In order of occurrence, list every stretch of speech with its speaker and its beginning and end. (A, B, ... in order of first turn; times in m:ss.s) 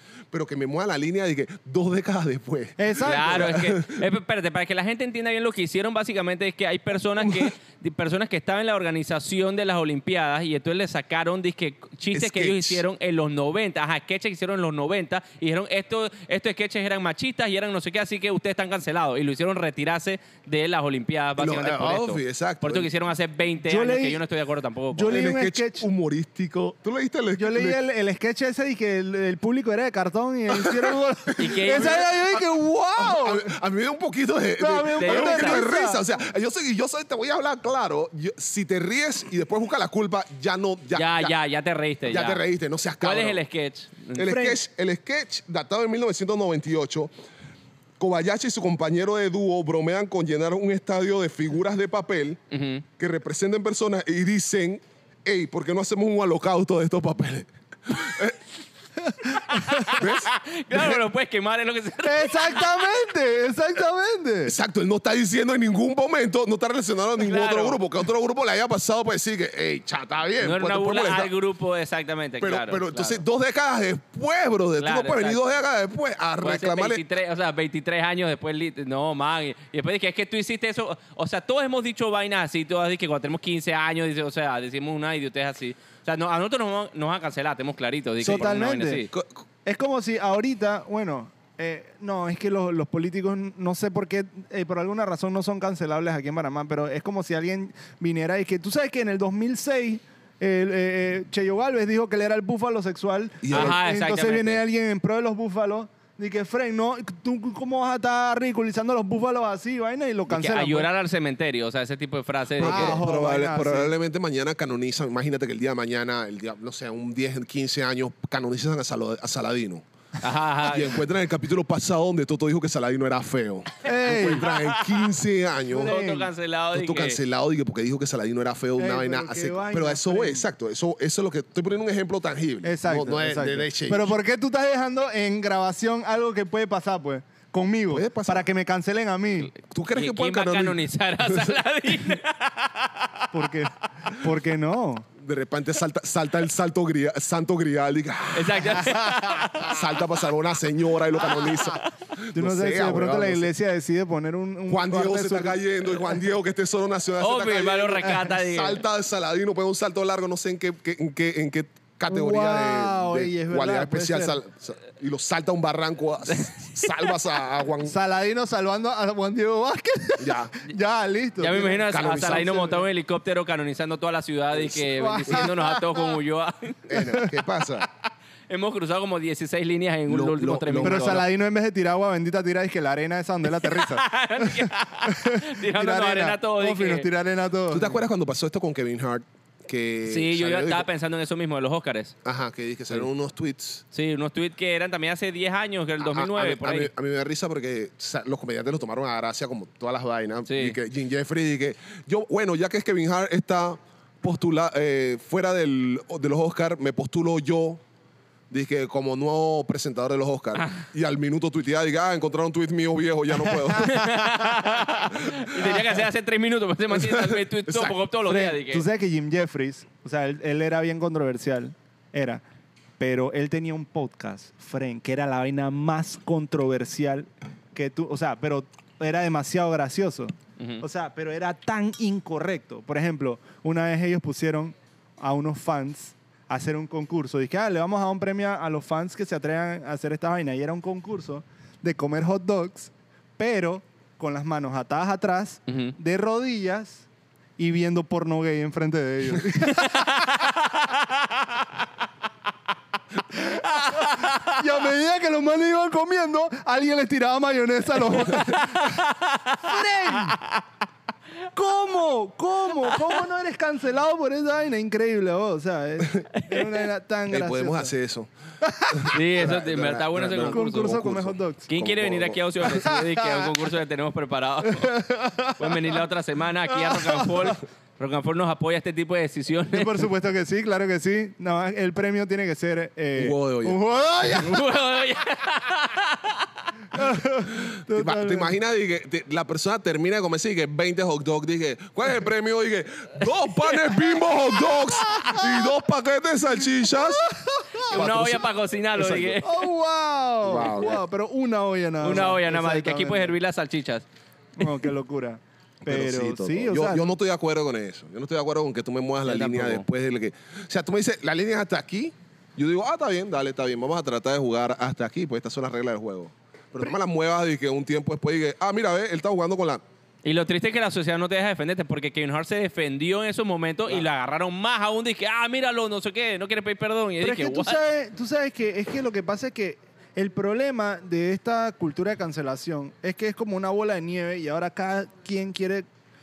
0:00.3-0:04.1 A
0:02.8-0:03.6 B
0:03.0-0:25.2 C
0:07.2-0:07.5 A
0:12.1-0:12.8 A
0:21.4-0:22.9 A
0:23.7-0:24.2 B
0:24.9-0:25.9 B
0:25.1-0:27.8 A
0:27.3-0:33.5 B
0:30.5-0:32.5 A
0:31.4-0:32.1 C
0:33.0-0:41.4 A
0:34.6-0:36.0 B
0:35.0-0:35.7 C
0:40.9-0:42.4 C
0:42.1-0:43.4 A
0:43.0-0:44.3 C
0:44.2-0:47.1 A
0:44.2-0:44.6 B
0:48.0-0:52.4 A
0:52.5-0:52.8 C
0:53.0-0:58.4 A
0:59.0-0:59.9 B
0:59.3-1:02.9 C
0:59.9-1:01.0 A
1:02.0-1:04.6 B
1:04.5-1:11.3 A
1:07.2-1:07.8 C
1:10.4-1:13.2 C
1:12.4-1:17.0 A
1:14.8-1:15.4 C
1:16.4-1:29.1 C
1:28.2-1:29.0 B
1:29.1-1:29.4 A
1:29.6-1:50.9 B
1:43.4-1:43.8 A
1:43.5-1:44.6 C
1:50.3-1:53.0 C
1:52.6-1:59.8 A
1:52.6-1:53.9 B
2:00.2-2:01.0 C
2:00.6-2:06.0 A
2:03.8-2:04.5 B
2:04.3-2:05.1 C
2:05.7-2:06.3 B
2:05.8-2:07.2 C
2:06.7-2:14.2 A
2:08.8-2:10.5 B
2:12.6-2:19.5 B
2:17.9-2:18.5 A
2:19.7-2:21.6 A
2:20.0-2:23.5 C
2:23.3-2:25.1 B
2:25.2-2:29.0 A
2:28.3-2:29.8 C
2:28.9-2:29.4 B
2:29.6-2:33.5 A
2:31.4-2:31.8 C
2:32.3-2:36.2 B
2:34.7-2:48.0 A
2:37.2-2:38.8 C
2:42.1-2:44.4 B
2:46.3-2:46.9 C
2:47.8-2:52.8 B
2:50.2-2:50.5 A
2:51.4-2:56.9 C
2:51.5-2:52.7 A
2:54.5-2:55.5 A
2:55.0-2:56.1 B
2:56.9-2:57.9 A
2:57.0-2:57.3 B
2:58.5-3:01.2 C
3:00.1-3:01.2 A
3:00.8-3:08.0 B
3:03.6-3:07.1 C
3:07.7-3:10.9 A
3:10.1-3:12.1 C
3:12.2-3:13.8 A
3:13.9-3:16.9 C
3:16.0-3:27.8 A
3:20.5-3:20.8 C
3:28.5-3:34.1 A
3:33.5-3:34.1 B
3:33.8-3:38.9 C
3:35.1-3:35.9 A
3:36.9-3:38.0 A
3:38.3-3:42.4 B
3:43.0-4:07.1 B
4:05.7-4:06.0 C
4:07.6-4:10.6 B
4:09.7-4:11.7 C
4:13.3-4:19.0 B
4:13.4-4:14.6 C
4:18.3-4:20.6 C
4:19.6-4:20.4 B
4:21.5-4:27.9 B
4:26.5-4:26.8 C
4:27.3-4:28.3 A
4:28.6-4:29.1 B
4:28.9-4:32.8 A
4:29.1-4:31.0 C
4:30.5-4:31.7 B
4:31.7-4:35.0 C
4:32.7-4:33.5 B
4:34.7-4:36.0 B
4:35.6-4:40.1 C
4:36.7-4:37.6 B
4:39.7-4:44.6 B
4:43.2-4:43.8 A
4:44.3-4:46.5 C
4:46.9-4:48.5 B
4:47.5-4:57.3 A
4:54.7-4:55.6 B
4:56.8-4:58.0 B
4:57.9-4:59.4 A
4:57.9-4:59.6 C
4:59.4-5:03.3 B
5:00.4-5:01.0 A
5:02.0-5:04.0 C
5:04.6-5:07.0 B
5:04.6-5:04.9 C
5:05.8-5:19.8 A
5:09.2-5:09.8 C
5:20.2-5:27.8 C
5:27.2-5:35.9 B